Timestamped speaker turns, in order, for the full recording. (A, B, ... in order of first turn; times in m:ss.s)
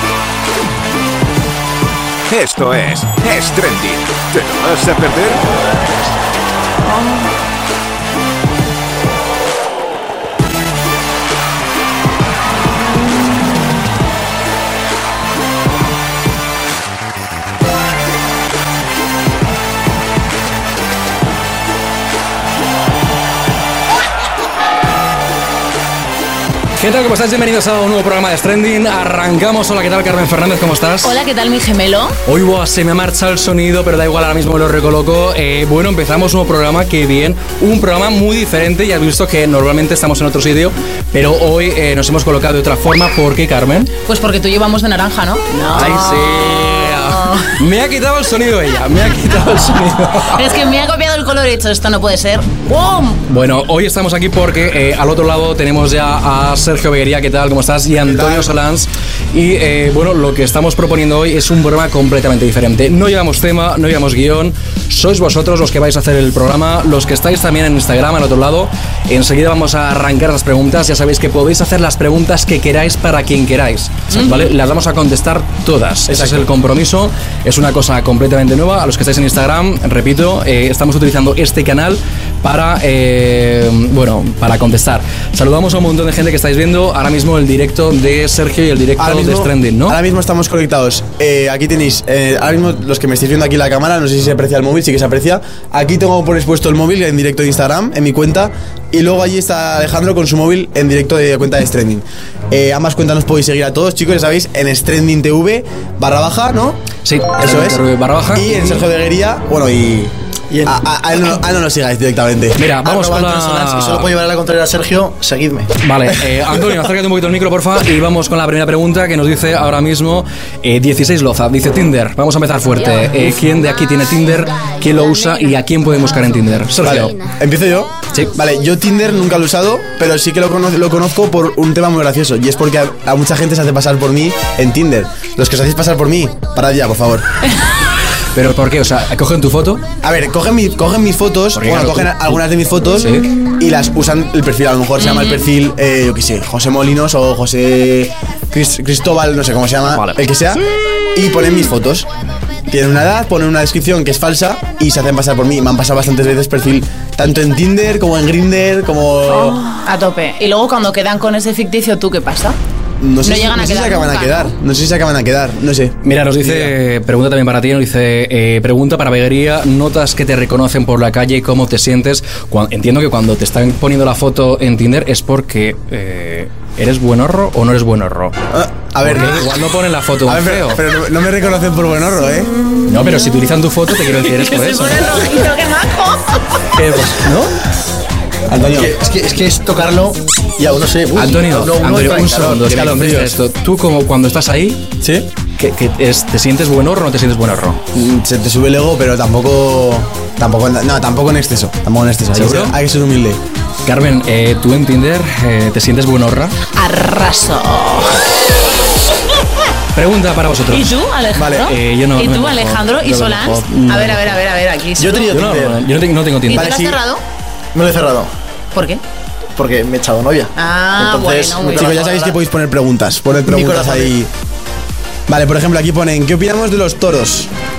0:02.3-0:05.6 A
0:26.8-0:31.2 B
0:31.0-0:32.2 C
0:32.2-0:43.9 B
0:44.0-0:47.6 C
0:45.7-0:50.6 B
0:50.2-0:53.2 C
0:53.3-1:30.0 B
0:58.0-0:58.5 D
1:16.1-1:16.5 D
1:29.0-1:46.8 D
1:47.0-1:48.8 B
1:47.4-1:50.1 D
1:50.5-1:50.8 E
1:50.6-1:52.6 D
1:52.6-1:54.1 B
1:52.8-1:55.7 E
1:55.8-2:07.2 B
2:06.8-2:17.3 D
2:18.3-2:19.8 B
2:20.0-2:30.6 D
2:21.5-2:22.4 B
2:23.0-2:23.3 B
2:25.0-2:25.4 C
2:29.9-2:30.2 B
2:31.1-2:32.1 D
2:32.7-2:39.7 D
2:39.3-2:42.6 C
2:43.0-2:46.7 D
2:43.2-2:44.5 C
2:46.0-2:58.4 B
2:58.5-2:59.5 D
2:59.0-3:00.8 B
3:00.2-3:02.5 D
3:02.8-3:05.2 B
3:04.0-3:06.7 C
3:06.8-3:07.6 B
3:08.5-3:09.0 D
3:08.6-3:12.6 E
3:11.1-3:14.9 B
3:12.3-3:13.4 D
3:15.0-3:15.3 D
3:15.6-3:17.8 B
3:17.9-3:23.4 D
3:22.3-3:22.8 B
3:23.8-3:26.6 B
3:26.7-3:28.3 C
3:29.9-3:31.0 B
3:30.7-3:35.4 C
3:31.3-3:31.7 D
3:31.6-3:34.4 B
3:35.0-3:35.8 E
3:35.3-3:36.8 B
3:36.4-3:37.2 C
3:36.5-3:37.0 D
3:37.7-3:38.3 E
3:38.7-3:39.0 C
3:39.6-3:42.0 E
3:40.6-3:42.4 C
3:41.7-3:44.3 D
3:43.4-3:44.1 E
3:45.3-3:47.5 D